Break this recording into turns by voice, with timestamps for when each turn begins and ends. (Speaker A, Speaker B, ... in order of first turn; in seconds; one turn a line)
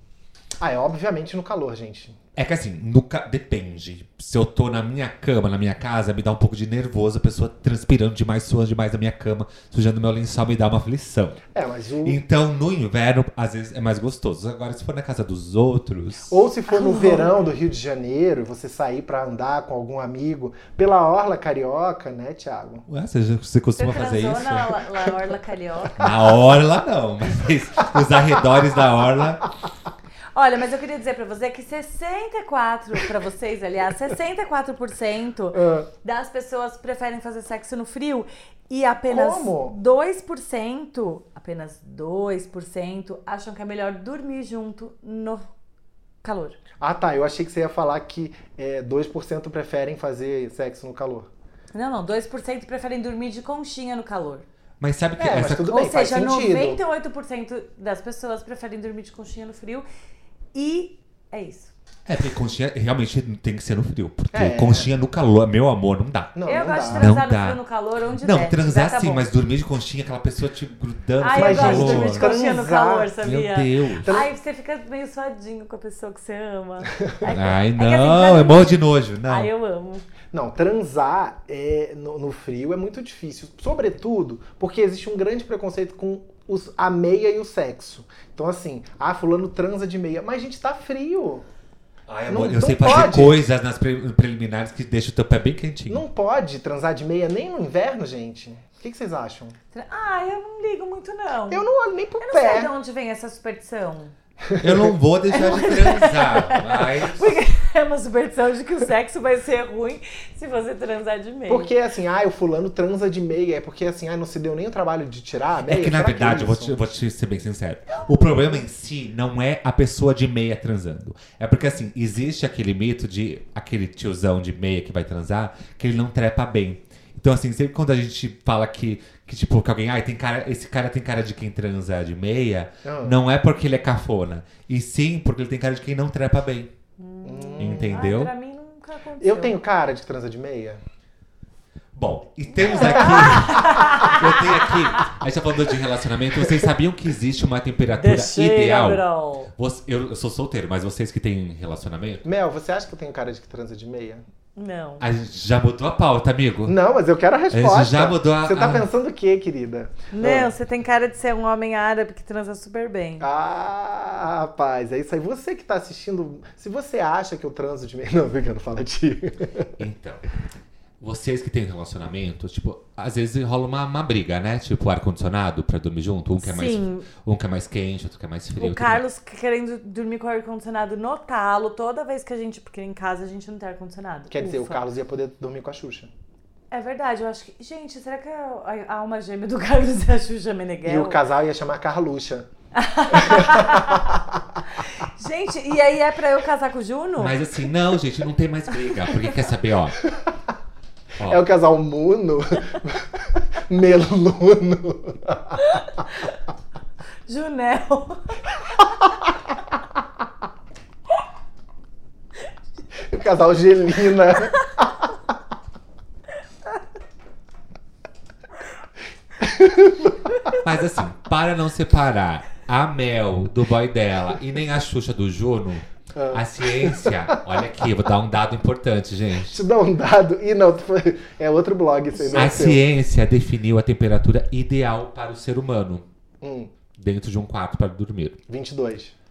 Speaker A: 0.6-2.2
Speaker B: 2.4-11.4
Speaker A: 11.5-12.2
Speaker B: 12.0-16.4
Speaker A: 16.3-22.9
Speaker C: 16.7-17.4
Speaker B: 22.9-24.8
Speaker C: 23.8-26.1
Speaker B: 26.0-29.4
Speaker C: 30.4-45.5
Speaker A: 35.5-35.9
Speaker A: 39.1-39.8
Speaker C: 46.2-46.6
Speaker A: 46.8-51.3
Speaker C: 51.7-54.5
Speaker B: 54.8-55.7
Speaker A: 55.2-56.8
Speaker C: 55.7-59.9
Speaker C: 60.5-61.7
Speaker B: 62.1-66.3
Speaker A: 64.3-64.9
Speaker A: 66.3-67.1
Speaker C: 66.5-69.2
Speaker B: 66.9-67.6
Speaker B: 68.2-72.3
Speaker C: 71.2-80.0
Speaker A: 71.3-73.1
Speaker B: 73.2-74.1
Speaker A: 74.0-74.3
Speaker B: 77.3-79.5
Speaker A: 80.3-91.4
Speaker B: 92.1-96.0
Speaker A: 92.3-93.5
Speaker A: 95.9-99.6
Speaker C: 99.7-101.7
Speaker A: 101.5-102.7
Speaker C: 102.2-104.1
Speaker A: 104.5-104.9
Speaker B: 104.6-107.3
Speaker C: 105.3-111.7
Speaker A: 111.5-116.8
Speaker B: 115.7-136.7
Speaker A: 132.8-133.2
Speaker C: 137.0-139.6
Speaker A: 137.2-138.0
Speaker B: 137.6-138.3
Speaker A: 139.2-140.8
Speaker B: 141.9-149.0
Speaker C: 142.6-145.1
Speaker A: 142.7-144.1
Speaker C: 147.9-149.5
Speaker B: 149.6-152.2
Speaker A: 152.2-154.2
Speaker C: 154.6-155.0
Speaker B: 155.0-156.8
Speaker A: 156.7-160.5
Speaker B: 157.5-158.9
Speaker C: 160.1-163.3
Speaker A: 163.2-169.7
Speaker B: 169.8-170.2
Speaker B: 171.0-179.1
Speaker C: 176.4-177.1
Speaker C: 178.6-184.8
Speaker A: 184.3-186.1
Speaker C: 186.7-191.2
Speaker A: 190.8-192.5
Speaker C: 192.7-194.2
Speaker A: 193.2-194.2
Speaker C: 194.7-197.5
Speaker B: 197.2-200.0
Speaker B: 201.2-201.4
Speaker A: 201.2-205.7
Speaker C: 207.3-208.4
Speaker A: 213.1-214.7
Speaker A: 219.4-220.3
Speaker B: 220.6-229.6
Speaker A: 226.1-227.4
Speaker A: 229.5-232.8
Speaker B: 232.3-236.1
Speaker A: 236.4-236.7
Speaker B: 237.0-238.4
Speaker A: 238.5-239.2